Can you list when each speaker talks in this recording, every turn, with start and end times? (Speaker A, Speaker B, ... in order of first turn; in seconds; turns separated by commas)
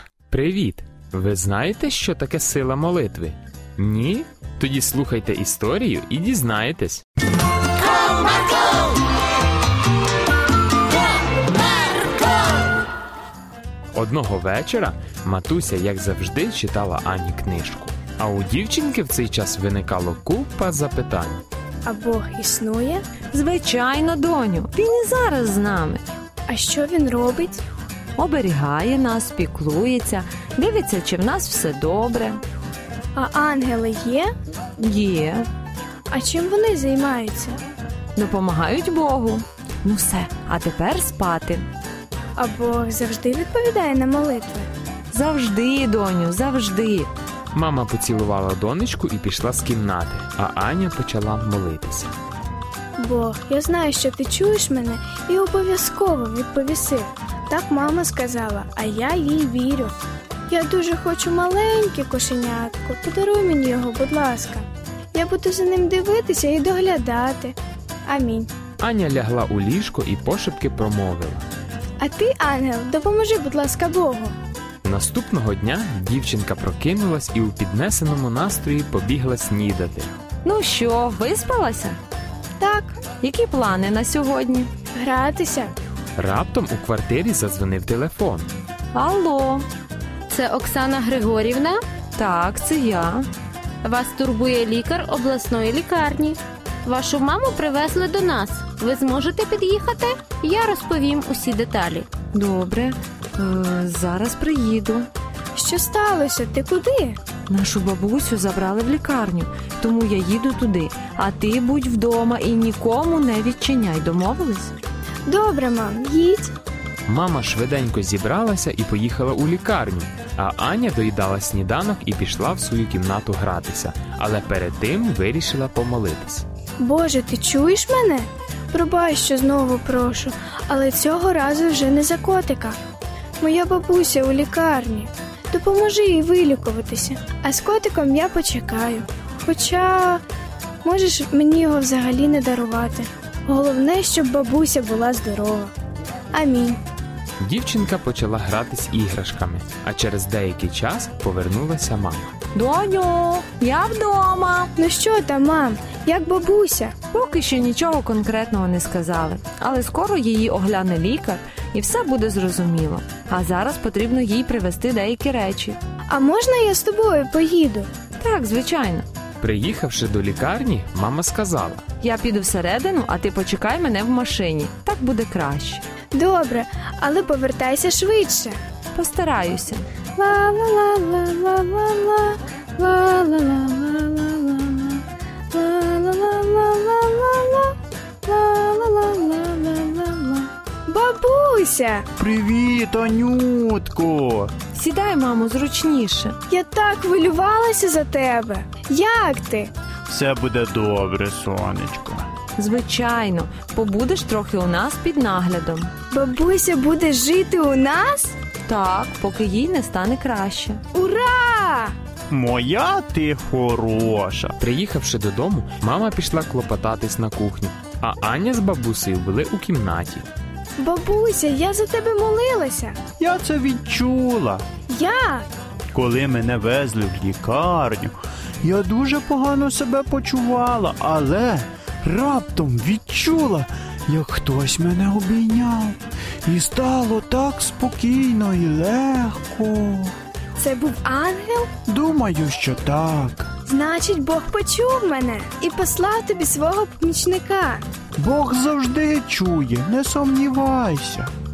Speaker A: 0.3-7.0, Speaker A: 13.9-21.4, Speaker B: 21.9-23.0, Speaker C: 23.3-26.0, Speaker B: 26.5-27.6, Speaker C: 28.2-32.4, Speaker B: 33.1-34.3, Speaker C: 34.8-35.5, Speaker B: 36.1-37.6, Speaker C: 38.1-41.6, Speaker B: 42.4-44.7, Speaker C: 45.1-47.1, Speaker A: 47.5-52.1, Speaker B: 53.0-59.9, Speaker B: 60.5-67.5, Speaker B: 68.1-68.5, Speaker A: 68.8-71.4, Speaker B: 72.0-74.3, Speaker A: 74.8-80.2, Speaker C: 80.4-82.0, Speaker B: 82.6-83.0, Speaker C: 83.2-84.7, Speaker B: 84.9-85.7, Speaker A: 86.2-88.5, Speaker C: 88.9-89.7, Speaker D: 90.3-91.8, Speaker C: 92.2-93.3, Speaker D: 93.8-102.1, Speaker C: 102.3-105.1, Speaker B: 105.5-107.2, Speaker C: 107.5-114.7, Speaker B: 115.3-116.5, Speaker A: 117.1-126.4, Speaker B: 126.8-132.8, Speaker B: 133.4-140.2, Speaker B: 140.8-145.7, Speaker B: 146.3-146.8, Speaker A: 147.4-152.3, Speaker C: 152.5-154.7, Speaker B: 154.8-156.9, Speaker C: 157.1-165.8, Speaker B: 166.1-167.9, Speaker C: 168.2-169.1, Speaker A: 169.4-171.8, Speaker C: 172.0-175.8, Speaker B: 176.1-178.6, Speaker C: 178.9-179.8, Speaker B: 180.2-185.0, Speaker B: 185.5-187.7, Speaker B: 188.2-192.1, Speaker E: 192.2-194.5, Speaker C: 194.7-196.4, Speaker B: 196.5-199.7, Speaker E: 200.1-202.3, Speaker C: 202.6-205.9, Speaker B: 206.1-208.3, Speaker C: 208.7-210.8, Speaker B: 210.9-211.9, Speaker E: 212.3-214.6, Speaker A: 214.6-220.3, Speaker B: 220.8-223.0, Speaker E: 223.2-224.6, Speaker B: 224.9-225.4, Speaker E: 225.9-240.1, Speaker B: 240.6-241.7, Speaker E: 241.8-243.5, Speaker B: 243.7-247.8, Speaker E: 248.2-251.3